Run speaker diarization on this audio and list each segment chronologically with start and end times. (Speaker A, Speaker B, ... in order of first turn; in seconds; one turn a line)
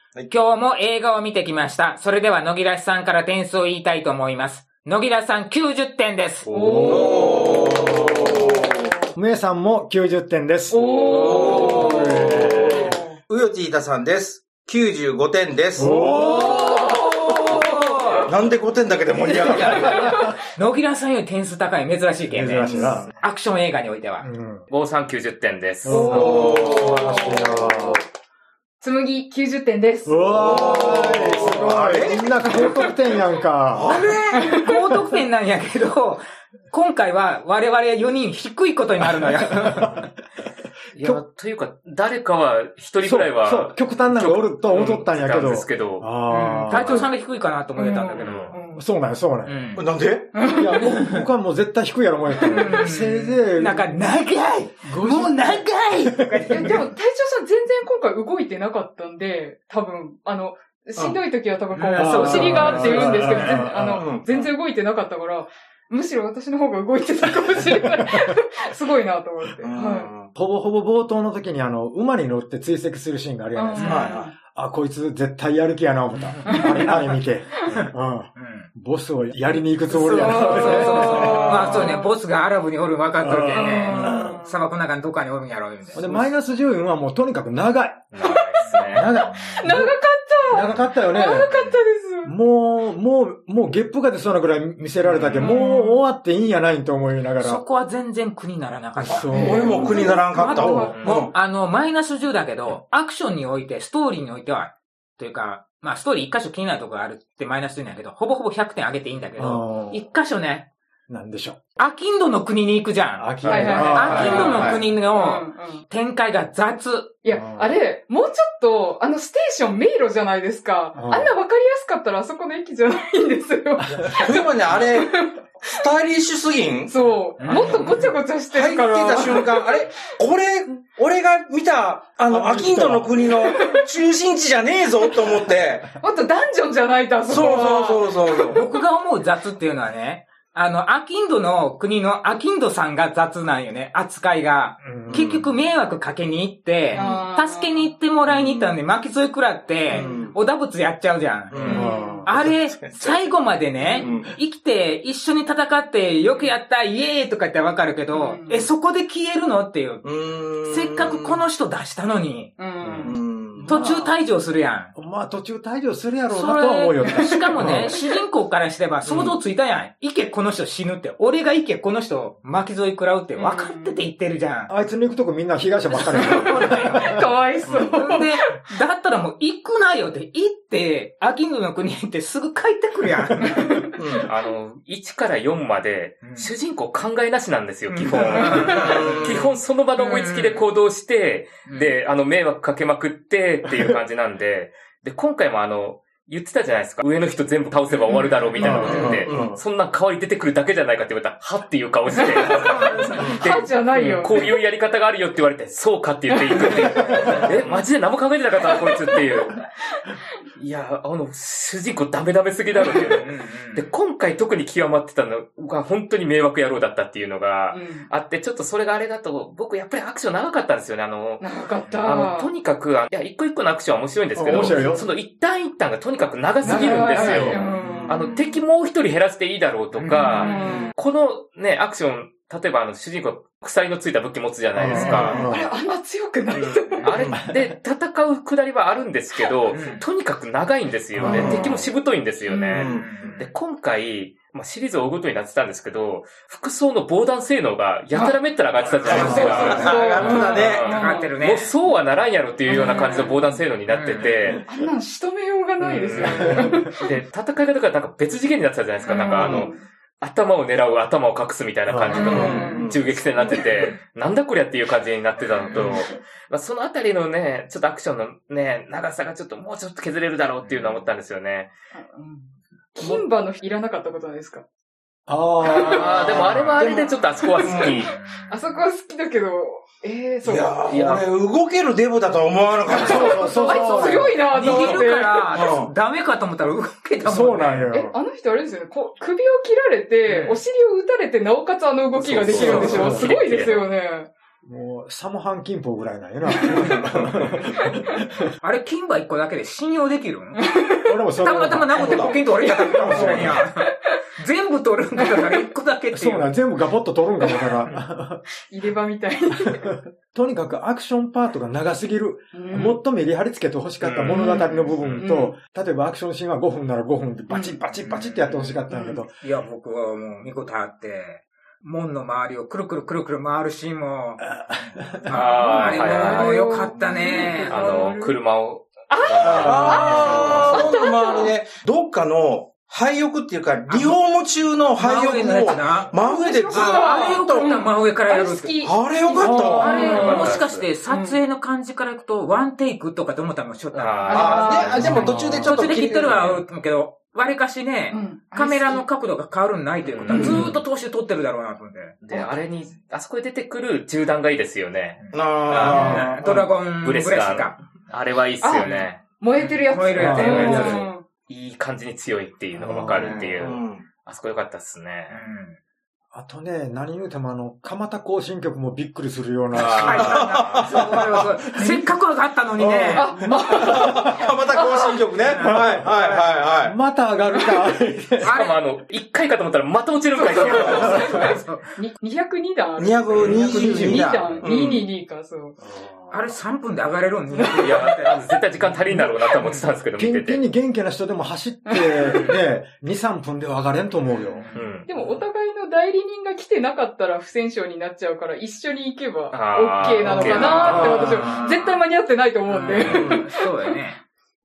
Speaker A: 0.3-6.5
Speaker B: 6.5-8.4
Speaker C: 6.5-7.8
Speaker D: 6.8-8.7
Speaker B: 9.2-12.9
Speaker C: 10.7-13.2
Speaker E: 10.8-11.7
Speaker D: 11.2-16.2
Speaker B: 15.8-16.6
Speaker A: 15.8-18.3
Speaker C: 16.1-18.3
Speaker D: 18.2-20.3
Speaker B: 19.3-20.3
Speaker C: 19.4-20.4
Speaker A: 20.5-24.3
Speaker B: 22.3-23.1
Speaker D: 22.5-23.1
Speaker B: 24.2-24.7
Speaker E: 24.7-27.7
Speaker B: 25.9-28.0
Speaker C: 25.9-27.6
Speaker D: 25.9-28.0
Speaker C: 28.8-31.6
Speaker B: 30.1-34.1
Speaker D: 30.3-32.6
Speaker C: 32.5-32.9
Speaker D: 33.7-34.6
Speaker A: 34.3-40.1
Speaker C: 34.4-35.0
Speaker B: 39.5-40.0
Speaker E: 40.9-46.1
Speaker B: 43.0-47.1
Speaker A: 46.3-48.6
Speaker E: 46.7-47.1
Speaker C: 47.7-48.9
Speaker E: 48.1-48.5
Speaker B: 48.8-49.8
Speaker A: 49.5-49.9
Speaker D: 49.8-50.4
Speaker C: 50.3-51.2
Speaker B: 50.4-53.9
Speaker C: 52.3-53.0
Speaker A: 52.4-56.9
Speaker B: 54.8-56.8
Speaker C: 56.5-70.1
Speaker A: 61.9-63.6
Speaker B: 61.9-64.1
Speaker D: 64.0-64.5
Speaker B: 67.5-68.3
Speaker D: 69.6-70.3
Speaker B: 70.3-81.9
Speaker C: 73.5-74.3
Speaker A: 73.8-74.2
Speaker D: 73.9-74.3
Speaker A: 76.3-76.7
Speaker C: 76.5-77.8
Speaker A: 77.7-78.7
Speaker A: 79.9-86.3
Speaker C: 80.0-82.1
Speaker D: 81.2-81.8
Speaker B: 83.2-84.4
Speaker C: 83.5-84.6
Speaker B: 85.9-88.2
Speaker E: 88.1-89.1
Speaker C: 88.2-92.3
Speaker B: 88.9-89.9
Speaker A: 89.3-89.6
Speaker B: 90.5-91.6
Speaker B: 92.2-97.6
Speaker A: 95.0-95.8
Speaker C: 95.4-96.0
Speaker A: 97.4-110.7
Speaker B: 99.0-101.0
Speaker D: 99.1-101.3
Speaker C: 99.3-101.1
Speaker B: 109.4-110.0
Speaker B: 111.1-111.6
Speaker A: 111.8-117.1
Speaker B: 113.2-114.9
Speaker C: 113.5-115.8
Speaker E: 113.5-114.1
Speaker D: 114.0-114.9
Speaker C: 117.2-125.8
Speaker B: 117.3-117.8
Speaker B: 121.0-121.3
Speaker D: 123.9-126.9
Speaker C: 126.9-130.1
Speaker A: 127.4-128.1
Speaker B: 127.5-127.9
Speaker D: 128.5-135.9
Speaker B: 132.3-133.3
Speaker C: 133.4-133.8
Speaker C: 136.0-138.7
Speaker D: 137.3-138.6
Speaker A: 138.5-160.1
Speaker B: 144.8-145.5
Speaker D: 145.1-145.4
Speaker C: 146.9-147.9
Speaker D: 148.4-148.8
Speaker C: 149.9-150.3
Speaker D: 149.9-150.4
Speaker D: 151.5-153.4
Speaker C: 151.6-152.2
Speaker B: 151.7-152.3
Speaker D: 154.0-154.3
Speaker C: 158.1-158.7
Speaker D: 160.0-161.4
Speaker A: 160.6-163.1
Speaker C: 162.6-163.2
Speaker D: 163.0-163.7
Speaker B: 163.6-164.2
Speaker A: 163.7-164.9
Speaker B: 164.9-167.9
Speaker A: 166.3-174.7
Speaker C: 167.1-167.5
Speaker C: 173.4-173.9
Speaker B: 174.7-177.3
Speaker A: 175.9-177.2
Speaker C: 176.1-178.6
Speaker A: 177.7-183.8
Speaker B: 183.2-183.5
Speaker C: 183.4-184.0
Speaker D: 184.0-184.3
Speaker E: 184.2-209.6
Speaker A: 186.2-186.5
Speaker A: 187.9-190.6
Speaker C: 188.4-189.0
Speaker D: 188.7-189.5
Speaker A: 191.7-191.9
Speaker A: 198.1-199.2
Speaker B: 198.6-199.6
Speaker D: 198.9-199.5
Speaker C: 202.2-204.6
Speaker A: 202.5-203.2
Speaker C: 206.3-207.4
Speaker A: 206.5-207.5
Speaker C: 208.6-210.2
Speaker E: 210.6-235.5
Speaker C: 212.8-213.2
Speaker A: 213.1-213.9
Speaker C: 217.7-218.1
Speaker C: 221.4-222.5
Speaker B: 224.3-225.1
Speaker B: 226.6-227.7
Speaker C: 226.7-228.4
Speaker D: 227.8-228.2
Speaker A: 229.9-230.6
Speaker C: 230.4-230.9
Speaker B: 234.7-235.7
Speaker A: 234.9-235.4
Speaker D: 235.1-235.5
Speaker C: 235.2-237.1
Speaker E: 237.0-254.6
Speaker D: 237.0-237.4
Speaker A: 239.7-240.0
Speaker B: 241.2-241.8
Speaker D: 241.2-241.8
Speaker C: 242.4-242.9
Speaker D: 242.7-243.4
Speaker A: 242.8-243.5
Speaker C: 248.1-248.4
Speaker A: 248.9-251.7
Speaker D: 249.1-250.9
Speaker B: 249.1-249.8
Speaker C: 249.1-251.3
Speaker C: 252.7-253.4
Speaker A: 252.7-254.4
Speaker C: 254.7-257.1
Speaker E: 255.8-271.7
Speaker B: 256.2-256.9
Speaker C: 259.1-259.8
Speaker A: 259.1-259.6
Speaker D: 259.4-259.7
Speaker B: 261.9-262.7
Speaker C: 262.1-263.9
Speaker D: 262.2-263.0
Speaker A: 262.3-262.6
Speaker A: 263.5-264.0
Speaker A: 265.4-266.0
Speaker A: 270.6-271.1
Speaker C: 271.9-274.6
Speaker B: 275.3-276.7
Speaker C: 275.6-276.4
Speaker E: 275.6-278.2
Speaker D: 276.5-278.0
Speaker C: 277.4-280.8
Speaker A: 278.0-278.9
Speaker D: 280.4-283.9
Speaker E: 280.9-281.3
Speaker C: 282.9-285.5
Speaker B: 282.9-285.0
Speaker A: 284.0-288.0
Speaker D: 285.5-285.9
Speaker B: 287.2-288.2
Speaker C: 287.9-294.3
Speaker A: 290.2-290.6
Speaker E: 292.2-293.9
Speaker A: 292.5-293.1
Speaker B: 292.6-293.3
Speaker B: 294.6-298.5
Speaker C: 296.5-297.1
Speaker A: 296.9-297.3
Speaker C: 297.7-298.0
Speaker A: 298.6-300.7
Speaker C: 300.6-301.2
Speaker B: 301.1-302.3
Speaker A: 301.4-306.5
Speaker D: 301.9-302.4
Speaker C: 302.0-304.2
Speaker B: 303.1-303.5
Speaker D: 303.1-303.5
Speaker C: 305.2-305.6
Speaker B: 306.1-308.4
Speaker C: 307.4-307.8
Speaker C: 308.6-309.9
Speaker B: 309.6-319.4
Speaker C: 312.5-313.0
Speaker E: 314.0-315.3
Speaker C: 314.3-315.6
Speaker C: 317.5-317.8
Speaker A: 318.0-318.8
Speaker C: 318.9-319.2
Speaker A: 319.4-324.5
Speaker B: 324.5-325.4
Speaker A: 325.2-328.0
Speaker E: 325.3-326.6
Speaker C: 325.8-328.4
Speaker E: 327.7-330.8
Speaker C: 329.1-331.5
Speaker D: 329.4-337.7
Speaker B: 329.4-330.3
Speaker A: 333.9-334.2
Speaker A: 335.0-336.1
Speaker C: 336.1-341.4
Speaker A: 336.7-338.8
Speaker D: 338.8-340.3
Speaker A: 339.8-352.2
Speaker E: 339.9-340.9
Speaker E: 343.9-346.6
Speaker C: 344.3-345.5
Speaker D: 344.3-346.6
Speaker C: 348.1-349.1
Speaker E: 350.0-350.7
Speaker D: 350.3-350.6
Speaker B: 350.4-350.8
Speaker E: 352.2-356.2
Speaker C: 352.3-352.9
Speaker A: 355.2-357.8
Speaker D: 355.3-356.7
Speaker C: 355.9-356.3
Speaker E: 357.0-359.2
Speaker C: 358.6-361.2
Speaker A: 358.8-361.0
Speaker B: 360.1-361.1
Speaker E: 360.2-365.4
Speaker B: 362.8-363.6
Speaker D: 363.1-364.1
Speaker A: 365.3-365.8
Speaker B: 366.3-372.1
Speaker E: 369.7-370.6
Speaker A: 369.8-373.3
Speaker D: 370.1-371.1
Speaker B: 372.8-374.1
Speaker C: 373.1-375.2
Speaker D: 373.8-377.0
Speaker A: 375.4-376.5
Speaker B: 375.6-378.5
Speaker A: 378.4-378.8
Speaker E: 378.4-381.5
Speaker C: 380.3-385.8
Speaker A: 380.7-381.9
Speaker D: 383.0-385.1
Speaker B: 383.4-384.6
Speaker B: 385.8-386.5
Speaker A: 386.3-389.9
Speaker C: 387.5-388.1
Speaker E: 387.7-390.6
Speaker B: 390.2-395.2
Speaker C: 391.9-392.5
Speaker A: 392.2-392.6
Speaker A: 394.4-395.0
Speaker E: 394.7-395.1
Speaker C: 395.1-403.7
Speaker E: 399.5-401.4
Speaker B: 400.2-401.6
Speaker A: 400.4-402.0
Speaker A: 402.7-404.2